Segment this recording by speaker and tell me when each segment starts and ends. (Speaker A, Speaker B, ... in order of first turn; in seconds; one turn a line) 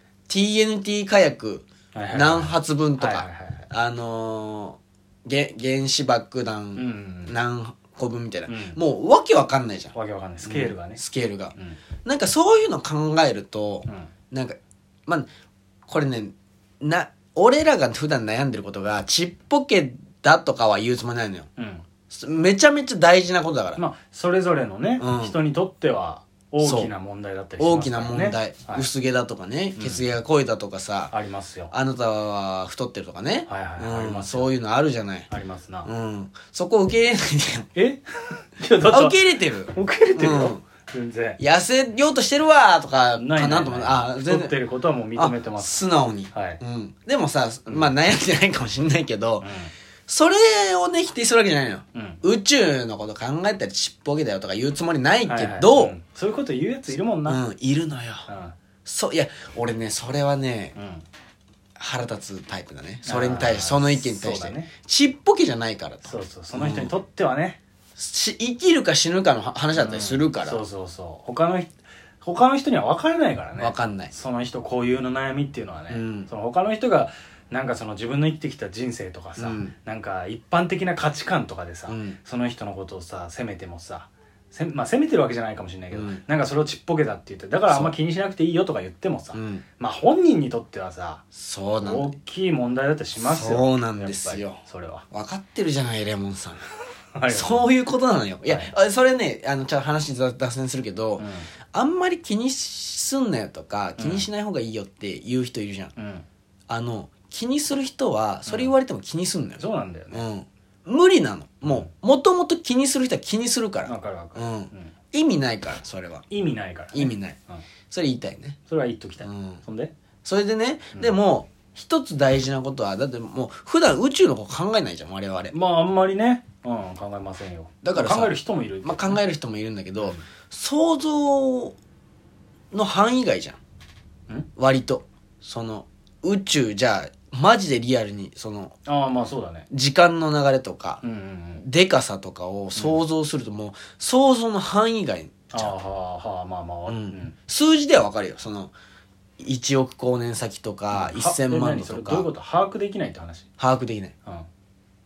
Speaker A: 0.3-15.3
Speaker B: 1.9-3.6
Speaker B: 6.7-7.3
Speaker B: 8.5-8.8
Speaker B: 9.9-11.0
Speaker A: 15.9-21.5
Speaker B: 21.6-21.8
Speaker A: 22.1-23.8
Speaker B: 23.8-28.9
Speaker A: 25.0-25.4
Speaker A: 26.6-26.9
Speaker A: 27.6-31.1
Speaker B: 29.8-30.0
Speaker B: 31.1-31.7
Speaker A: 31.7-35.3
Speaker B: 33.5-34.5
Speaker B: 35.3-35.9
Speaker A: 35.8-37.7
Speaker B: 37.7-41.4
Speaker A: 38.9-40.6
Speaker A: 41.4-44.5
Speaker B: 43.1-46.6
Speaker A: 45.1-49.5
Speaker B: 49.4-49.7
Speaker A: 50.1-56.0
Speaker B: 51.9-52.2
Speaker B: 55.3-57.4
Speaker A: 57.2-58.3
Speaker B: 58.3-58.5
Speaker A: 58.8-60.8
Speaker B: 60.8-61.0
Speaker A: 61.8-66.9
Speaker B: 63.0-64.7
Speaker B: 66.0-67.6
Speaker A: 68.0-70.6
Speaker B: 69.8-91.2
Speaker A: 73.6-74.1
Speaker A: 75.9-76.3
Speaker A: 79.4-79.7
Speaker A: 81.9-82.2
Speaker A: 85.9-86.2
Speaker A: 87.7-87.9
Speaker A: 89.3-89.6
Speaker A: 91.3-92.1
Speaker B: 91.8-95.0
Speaker A: 93.2-96.6
Speaker B: 97.1-97.7
Speaker A: 97.3-105.9
Speaker B: 98.4-98.7
Speaker B: 101.2-101.5
Speaker B: 104.0-104.3
Speaker B: 106.0-106.2
Speaker A: 106.7-116.2
Speaker B: 108.5-108.7
Speaker B: 109.6-110.2
Speaker B: 113.8-114.9
Speaker B: 116.3-117.6
Speaker A: 116.9-117.4
Speaker A: 117.9-118.6
Speaker B: 118.7-119.9
Speaker A: 119.2-119.6
Speaker A: 120.2-125.5
Speaker B: 125.5-129.2
Speaker A: 127.8-131.8
Speaker A: 132.7-133.6
Speaker A: 134.6-138.7
Speaker B: 138.8-139.7
Speaker A: 139.7-141.0
Speaker B: 141.0-141.6
Speaker A: 141.6-145.7
Speaker B: 145.5-147.3
Speaker A: 146.9-148.7
Speaker A: 149.4-152.3
Speaker B: 150.9-153.5
Speaker A: 153.6-154.1